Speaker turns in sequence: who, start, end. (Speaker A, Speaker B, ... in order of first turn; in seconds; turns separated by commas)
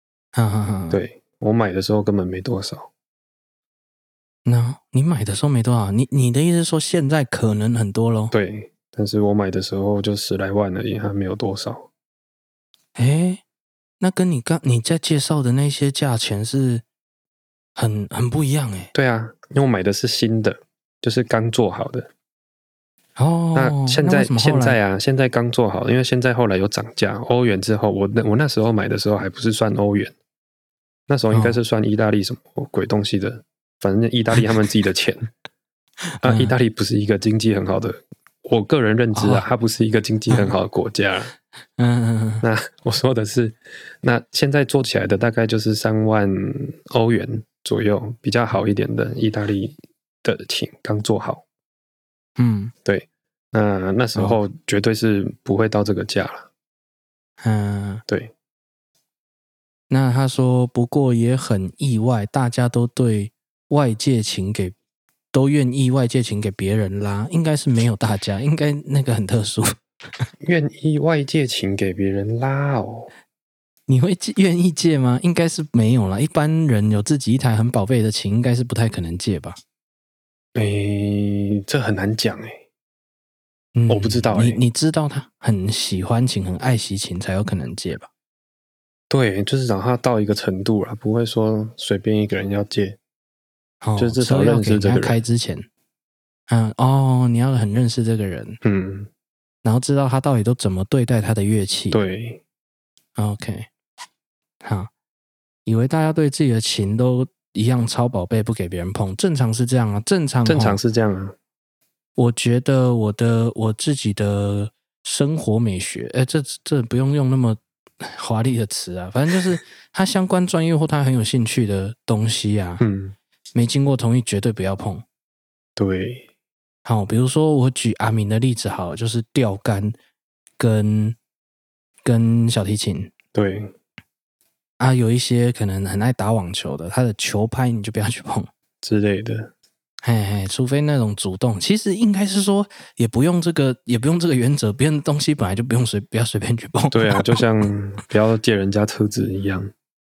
Speaker A: 0.3-1.0, Speaker B: 0.9-2.9, Speaker A: 4.5-8.3, Speaker B: 8.3-11.9, Speaker A: 13.0-13.4, Speaker A: 14.0-16.8, Speaker A: 17.8-18.9, Speaker B: 18.9-22.1, Speaker A: 23.2-24.8, Speaker B: 23.6-30.1, Speaker B: 31.1-35.3, Speaker A: 31.3-31.6, Speaker A: 36.2-36.6, Speaker B: 36.2-41.3, Speaker A: 39.1-39.5, Speaker A: 41.8-42.5, Speaker B: 42.4-51.4, Speaker A: 52.4-52.7, Speaker B: 52.9-56.5, Speaker A: 54.1-54.4, Speaker A: 57.4-58.0, Speaker B: 58.1-58.3, Speaker A: 59.9-64.8, Speaker A: 65.3-70.3, Speaker B: 70.4-73.1, Speaker A: 73.9-79.6, Speaker B: 80.5-82.6, Speaker A: 83.8-88.1, Speaker B: 83.9-84.6, Speaker B: 89.1-93.0, Speaker A: 93.8-95.7, Speaker B: 94.0-95.2, Speaker A: 96.5-98.6, Speaker B: 98.6-99.1, Speaker A: 99.6-102.0, Speaker B: 101.9-102.4, Speaker A: 103.2-103.7, Speaker A: 104.6-104.9, Speaker A: 105.7-110.8, Speaker B: 110.5-111.4, Speaker A: 112.2-122.8, Speaker B: 122.8-123.2, Speaker A: 123.5-125.0, Speaker B: 125.8-126.3, Speaker A: 126.9-130.0, Speaker A: 130.6-131.2, Speaker A: 132.1-133.1, Speaker B: 133.3-133.7, Speaker A: 134.8-138.5, Speaker B: 138.8-139.5, Speaker A: 140.0-147.4, Speaker B: 146.9-149.7